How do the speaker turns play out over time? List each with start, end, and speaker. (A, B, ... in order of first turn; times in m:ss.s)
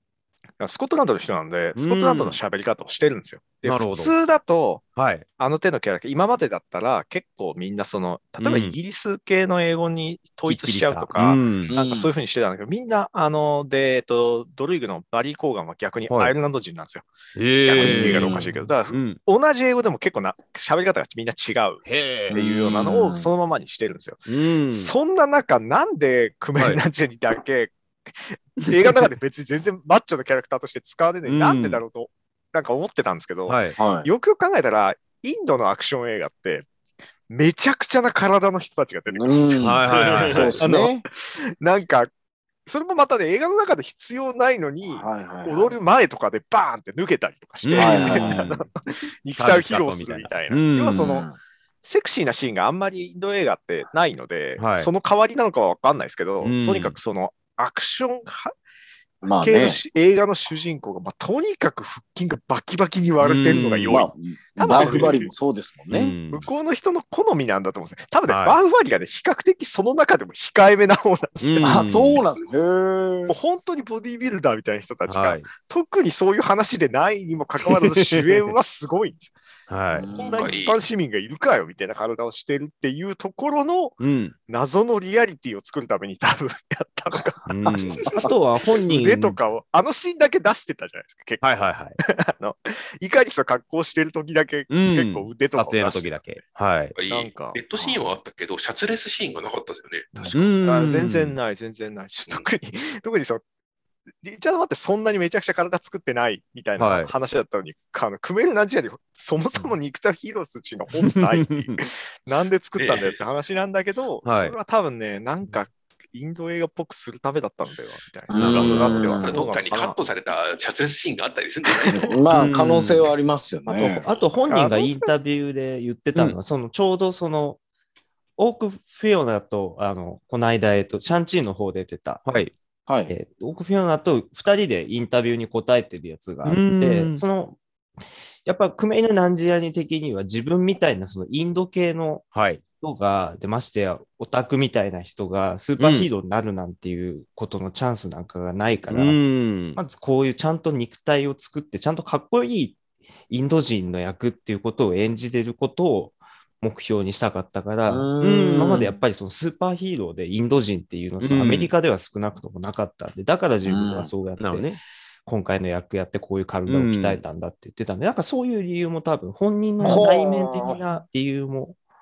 0:00.6-0:04.8 A
0:01.8-0:02.4 B
0:03.6-0:04.1 B
0:05.0-0:05.3 B
0:05.4-0:17.1 A
0:08.4-0:08.8 B
0:10.4-0:11.7 B
0:11.7-0:12.1 C
0:16.1-0:16.3 B
0:17.4-0:19.2 B
0:17.6-0:36.7 A
0:17.8-0:18.6 C
0:21.9-0:22.4 B
0:22.3-0:23.3 C
0:24.3-0:24.9 B
0:26.6-0:26.8 B
0:28.7-0:29.0 B
0:31.2-0:31.8 B
0:33.5-0:33.8 B
0:33.8-0:34.1 C
0:37.3-0:39.6 A
0:39.1-0:41.0 C
0:39.5-0:40.6 B
0:39.9-0:40.6 D
0:40.6-0:42.1 A
0:42.7-0:51.3 A
0:44.9-0:45.8 C
0:47.6-0:48.6 B
0:47.8-0:48.5 C
0:49.3-0:51.2 B
0:50.9-0:51.4 C
0:51.8-0:58.5 A
0:54.6-0:54.9 B
0:56.4-0:57.0 B
0:59.2-0:59.8 C
0:59.4-1:05.3 A
1:03.2-1:04.0 B
1:03.9-1:06.2 C
1:04.6-1:05.1 B
1:05.9-1:06.5 B
1:06.3-1:12.1 A
1:08.3-1:08.6 B
1:11.4-1:12.2 B
1:11.6-1:13.4 C
1:13.3-1:19.4 A
1:15.1-1:15.5 B
1:17.7-1:18.4 B
1:19.7-1:20.1 B
1:19.9-1:20.5 C
1:20.1-1:28.2 A
1:20.2-1:20.8 D
1:24.0-1:24.4 B
1:27.5-1:28.0 B
1:28.2-1:29.4 E
1:28.8-1:31.4 A
1:31.4-1:32.0 B
1:32.0-1:36.4 A
1:34.7-1:36.9 B
1:37.0-1:40.4 D
1:37.1-1:37.6 A
1:40.2-1:43.4 A
1:40.3-1:41.4 B
1:44.2-2:00.0 A
1:46.8-1:47.1 B
1:51.0-1:51.8 B
1:52.8-1:53.2 D
1:54.2-1:54.6 B
1:58.3-1:59.4 C
1:58.4-1:59.2 B
1:59.2-2:02.2 D
2:01.7-2:02.0 A
2:01.9-2:04.1 C
2:02.3-2:03.1 B
2:03.7-2:07.6 E
2:04.5-2:05.1 A
2:08.4-2:12.3 E
2:12.3-2:12.5 B
2:12.9-2:13.1 C
2:13.1-2:17.6 E
2:16.4-2:17.2 B
2:18.4-2:22.3 E
2:22.3-2:22.6 B
2:22.8-2:29.2 E
2:25.8-2:26.1 B
2:28.9-2:29.8 B
2:29.8-2:44.8 E
2:37.9-2:38.9 C
2:38.2-2:38.9 B
2:41.2-2:41.7 B
2:43.7-2:44.1 C
2:44.4-2:44.8 B
2:45.3-2:51.8 E
2:46.7-2:47.2 B
2:49.8-2:50.8 C